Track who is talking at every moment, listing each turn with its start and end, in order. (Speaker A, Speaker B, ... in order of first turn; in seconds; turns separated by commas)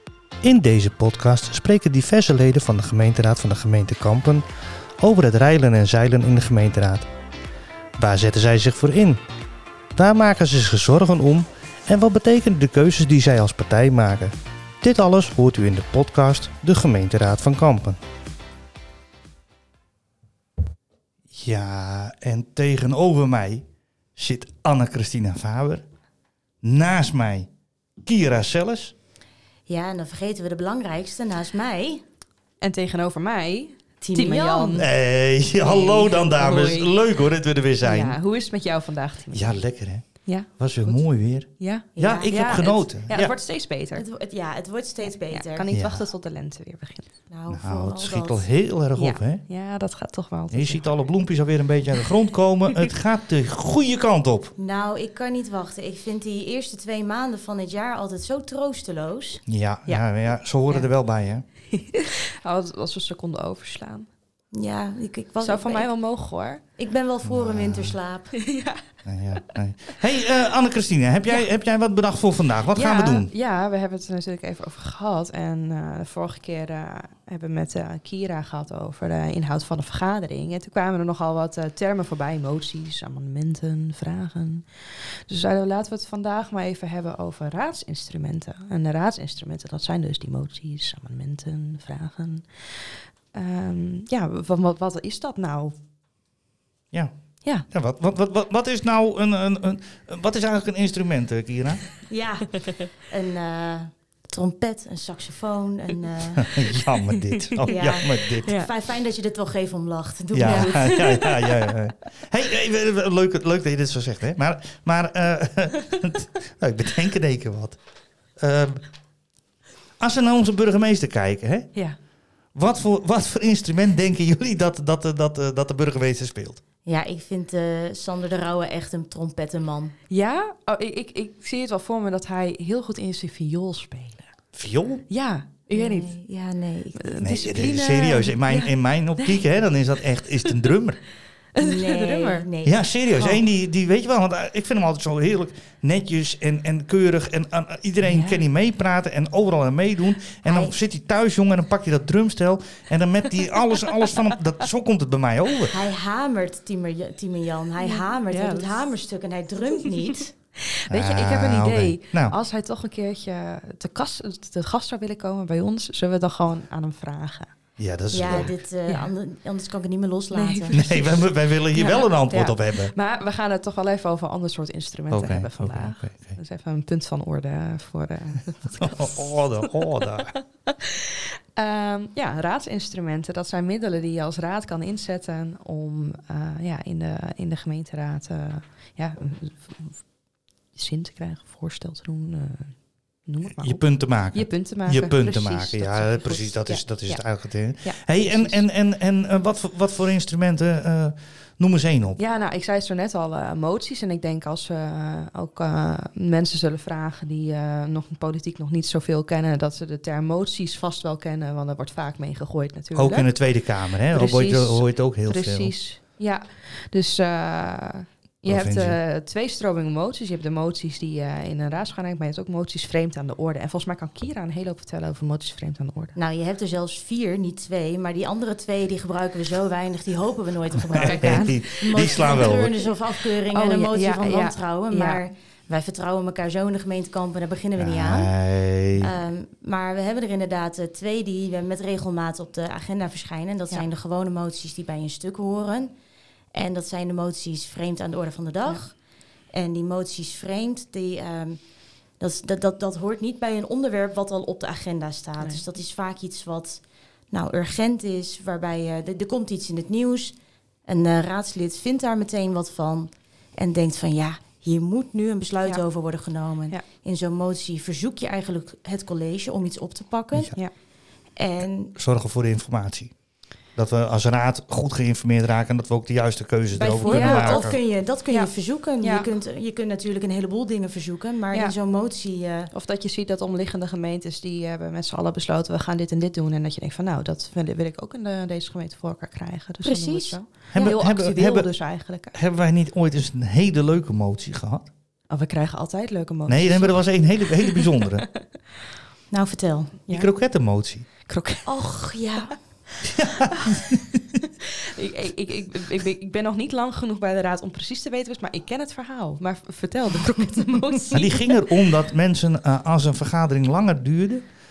Speaker A: 0.4-4.4, Speaker A: 5.0-7.1, Speaker A: 8.0-9.2, Speaker A: 9.9-18.0, Speaker A: 21.3-23.6, Speaker A: 24.2-25.8, Speaker A: 26.6-27.5, Speaker A: 28.0-28.9, Speaker B: 29.7-32.0, Speaker C: 32.6-34.9, Speaker B: 34.0-34.9, Speaker A: 34.7-38.2, Speaker C: 35.6-37.0, Speaker C: 37.8-39.5, Speaker A: 39.3-43.3, Speaker C: 40.2-41.0, Speaker C: 41.6-44.0, Speaker B: 42.0-42.3, Speaker B: 43.9-45.7, Speaker C: 45.0-47.1, Speaker A: 45.7-46.0, Speaker B: 47.3-48.5, Speaker A: 47.5-49.4, Speaker C: 49.0-51.0, Speaker A: 50.5-54.5, Speaker B: 54.6-59.4, Speaker A: 59.5-61.4, Speaker C: 61.7-64.0, Speaker B: 64.5-65.9, Speaker C: 65.4-66.6, Speaker B: 66.8-68.3, Speaker A: 67.2-68.0, Speaker C: 68.3-68.8, Speaker A: 69.0-73.3, Speaker C: 72.7-84.6, Speaker C: 85.3-92.4, Speaker C: 93.3-95.7, Speaker A: 97.7-101.8, Speaker B: 102.1-106.6, Speaker A: 106.4-108.6, Speaker C: 106.8-107.7, Speaker B: 107.7-111.3, Speaker C: 108.4-108.7, Speaker A: 110.3-117.8, Speaker C: 110.4-111.7, Speaker A: 118.4-118.8, Speaker A: 120.0-121.7, Speaker A: 122.5-126.6, Speaker B: 126.8-129.9, Speaker C: 130.1-134.3, Speaker A: 134.5-135.0, Speaker C: 135.1-136.1, Speaker B: 135.7-137.2, Speaker C: 136.9-139.4, Speaker A: 137.2-141.0, Speaker C: 141.5-142.5, Speaker B: 141.6-142.8, Speaker A: 142.6-155.8, Speaker C: 148.0-148.4, Speaker B: 150.4-150.7, Speaker C: 153.9-154.2, Speaker B: 155.7-160.3, Speaker C: 157.8-158.8, Speaker C: 160.7-167.5, Speaker A: 160.9-162.3, Speaker A: 167.8-168.5, Speaker B: 168.1-170.7, Speaker C: 168.3-169.1, Speaker C: 170.3-190.0, Speaker A: 170.7-172.9, Speaker A: 175.1-176.3, Speaker A: 178.7-180.3, Speaker C: 190.7-198.6, Speaker A: 193.6-202.2, Speaker C: 202.2-213.4, Speaker A: 212.9-215.7, Speaker C: 214.1-226.1, Speaker A: 218.4-219.0, Speaker B: 226.1-238.4, Speaker C: 230.9-232.5, Speaker A: 230.9-232.8, Speaker C: 233.3-235.2, Speaker A: 237.8-239.1, Speaker B: 238.9-245.9, Speaker B: 246.5-248.9, Speaker B: 249.5-251.6, Speaker B: 252.2-270.5, Speaker B: 271.4-271.9, Speaker A: 271.9-273.1, Speaker A: 273.8-277.8, Speaker B: 276.7-282.7, Speaker C: 277.1-277.7, Speaker C: 279.0-279.3, Speaker C: 282.7-292.3, Speaker B: 289.8-290.9, Speaker A: 290.7-291.7, Speaker A: 292.3-294.9, Speaker C: 295.3-298.2, Speaker A: 296.5-298.3, Speaker B: 299.3-299.9, Speaker A: 300.1-301.0, Speaker C: 301.3-301.7, Speaker B: 301.6-302.5, Speaker A: 303.1-304.0, Speaker C: 303.4-311.6, Speaker A: 311.1-314.4